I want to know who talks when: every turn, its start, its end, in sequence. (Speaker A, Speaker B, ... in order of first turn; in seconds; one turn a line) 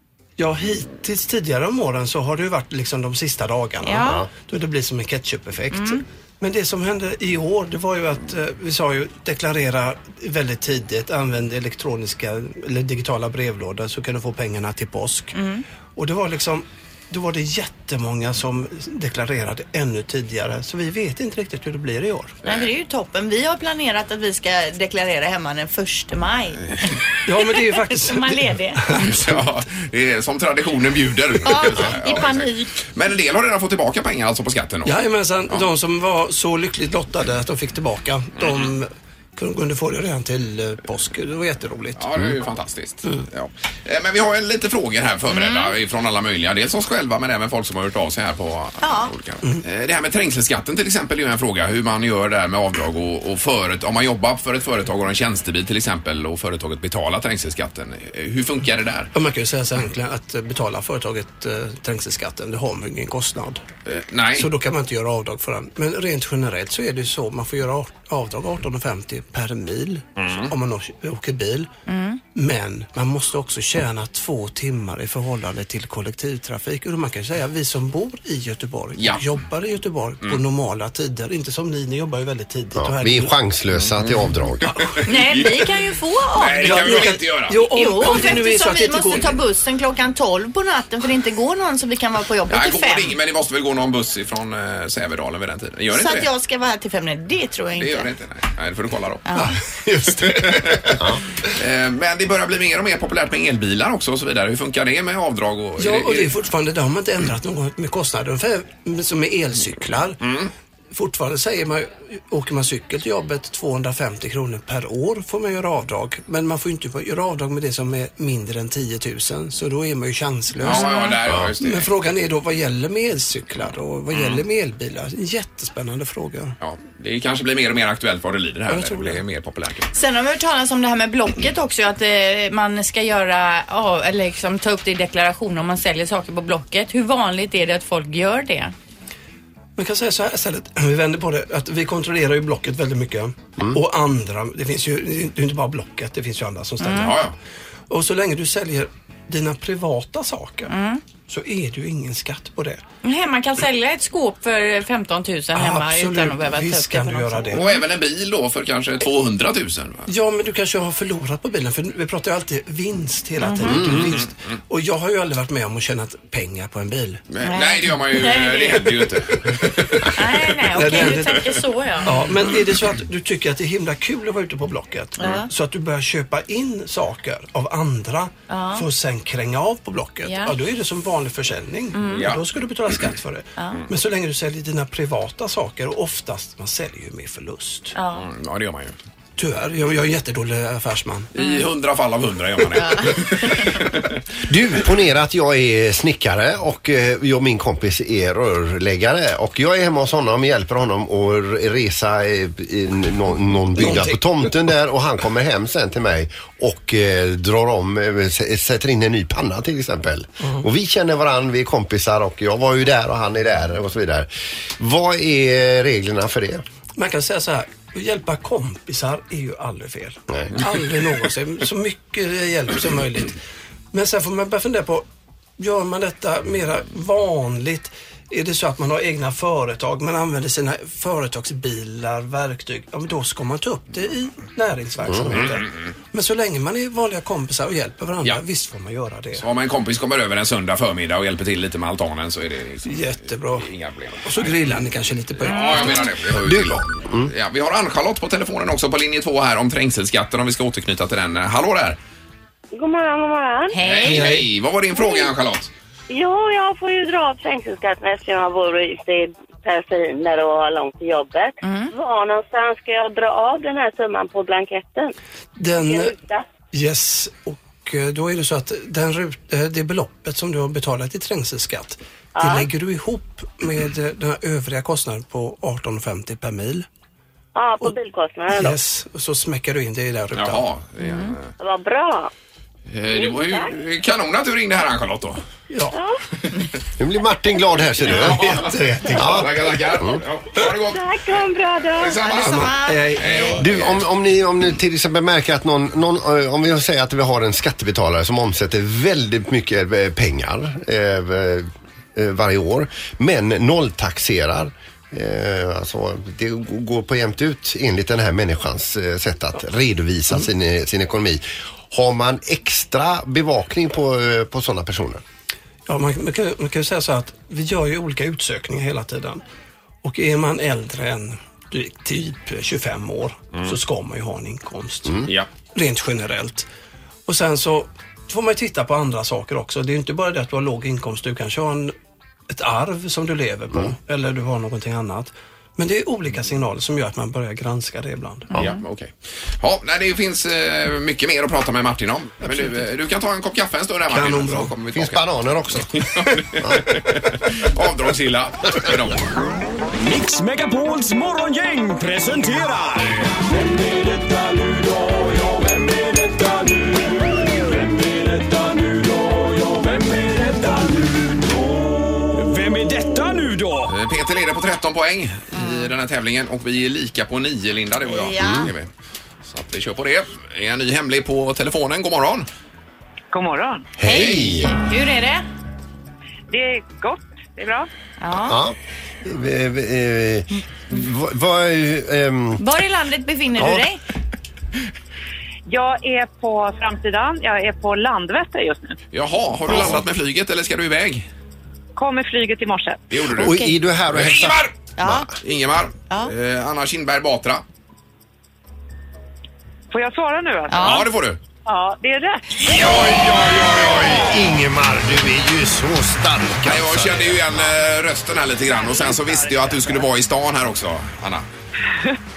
Speaker A: 0.4-15.4
Speaker B: 3.8-4.2
Speaker B: 5.7-6.0
Speaker B: 15.3-15.7
Speaker A: 15.9-22.4
Speaker C: 22.4-22.7
Speaker B: 22.4-28.8
Speaker A: 27.3-29.4
Speaker C: 29.0-35.7
Speaker B: 31.4-32.8
Speaker A: 34.9-42.1
Speaker C: 38.4-38.7
Speaker C: 42.0-59.1
Speaker B: 45.3-45.7
Speaker B: 48.8-49.1
Speaker A: 59.1-63.6
Speaker C: 63.9-64.5
Speaker A: 64.3-71.7
Speaker C: 70.2-70.5
Speaker B: 71.9-72.2
Speaker A: 72.3-83.3
Speaker C: 79.0-79.2
Speaker D: 82.8-84.7
Speaker C: 83.7-85.7
Speaker B: 85.0-93.2
Speaker C: 86.3-88.2
Speaker A: 86.6-89.4
Speaker C: 92.5-96.3
Speaker B: 95.9-98.1
Speaker C: 97.8-99.4
Speaker B: 99.3-99.6
Speaker A: 99.3-101.0
Speaker C: 100.2-106.3
Speaker A: 105.8-110.3
Speaker C: 110.2-110.5
Speaker A: 110.9-126.6
Speaker C: 120.6-121.9
Speaker B: 120.7-121.2
Speaker C: 124.1-124.4
Speaker C: 126.6-129.9
Speaker A: 128.7-129.2
Speaker B: 129.9-138.7
Speaker A: 139.8-147.3
Speaker B: 146.8-147.2
Speaker C: 146.9-147.3
Speaker A: 147.9-152.8
Speaker B: 150.7-151.0
Speaker B: 153.0-157.8
Speaker A: 155.5-157.7
Speaker C: 157.5-160.1
Speaker A: 160.1-167.2
Speaker B: 163.4-163.9
Speaker D: 163.7-164.0
Speaker C: 163.8-164.3
Speaker C: 167.3-170.4
Speaker B: 167.4-169.1
Speaker A: 169.6-170.1
Speaker B: 170.1-172.3
Speaker A: 170.7-187.9
Speaker C: 171.1-171.4
Speaker B: 175.2-175.5
Speaker B: 178.5-178.9
Speaker B: 180.2-180.6
Speaker B: 181.9-182.3
Speaker C: 182.1-182.4
Speaker B: 183.6-183.8
Speaker B: 187.9-188.3
Speaker C: 188.1-188.9
Speaker A: 189.4-191.3
Speaker C: 191.3-194.1
Speaker B: 191.4-191.6
Speaker B: 192.7-193.8
Speaker D: 194.5-216.6
Speaker A: 203.8-204.2
Speaker A: 217.0-223.4
Speaker A: 223.9-225.1
Speaker A: 225.6-239.5
Speaker C: 235.3-235.8
Speaker C: 239.4-244.6
Speaker A: 242.8-243.7
Speaker A: 244.2-246.1
Speaker C: 245.4-252.0
Speaker B: 245.5-246.0
Speaker D: 246.3-247.3
Speaker E: 252.7-253.8
Speaker B: 253.7-254.3
Speaker C: 253.8-255.7
Speaker A: 254.0-254.5
Speaker E: 256.1-265.1
Speaker B: 261.6-261.9
Speaker A: 265.6-266.2
Speaker E: 265.7-266.5
Speaker A: 266.7-276.9
Speaker E: 272.4-272.7
Speaker E: 277.6-278.8
Speaker A: 278.5-280.7
Speaker C: 280.4-281.5
Speaker B: 281.0-281.4
Speaker E: 281.6-282.3
Speaker C: 282.9-285.4
Speaker E: 283.1-283.7
Speaker A: 285.7-286.0
Speaker E: 285.9-286.2
Speaker D: 287.0-290.2
Speaker C: 288.0-291.1
Speaker A: 288.1-289.7
Speaker E: 290.9-292.4
Speaker C: 292.0-294.1
Speaker B: 292.2-293.6
Speaker A: 292.4-293.6
Speaker D: 293.6-315.2
Speaker A: 315.9-319.4
Speaker A: 320.0-326.7
Speaker A: 327.3-331.9
Speaker A: 332.5-338.5
Speaker C: 338.6-349.3
Speaker A: 342.5-342.8
Speaker A: 344.1-344.8
Speaker D: 344.9-345.9
Speaker F: 349.9-363.9
Speaker C: 363.9-368.9
Speaker B: 365.5-365.9
Speaker B: 368.0-368.7
Speaker D: 368.4-368.7
Speaker C: 369.5-372.5
Speaker G: 373.3-373.9
Speaker D: 374.0-374.7
Speaker B: 374.0-375.5
Speaker C: 374.1-374.5
Speaker G: 376.5-377.9
Speaker B: 378.2-378.6
Speaker D: 378.4-382.6
Speaker B: 382.6-384.0
Speaker D: 383.6-383.9
Speaker G: 385.7-389.0
Speaker C: 389.1-391.3
Speaker D: 389.7-390.0
Speaker G: 392.0-393.0
Speaker C: 393.1-393.6
Speaker D: 393.4-395.3
Speaker B: 393.4-393.8
Speaker C: 394.1-394.8
Speaker B: 395.0-395.3
Speaker C: 395.4-397.6
Speaker G: 399.9-401.0
Speaker B: 400.7-401.1
Speaker C: 400.8-401.4
Speaker G: 401.6-402.6
Speaker C: 402.7-404.4
Speaker D: 402.8-407.7
Speaker C: 406.6-411.4
Speaker G: 408.6-410.1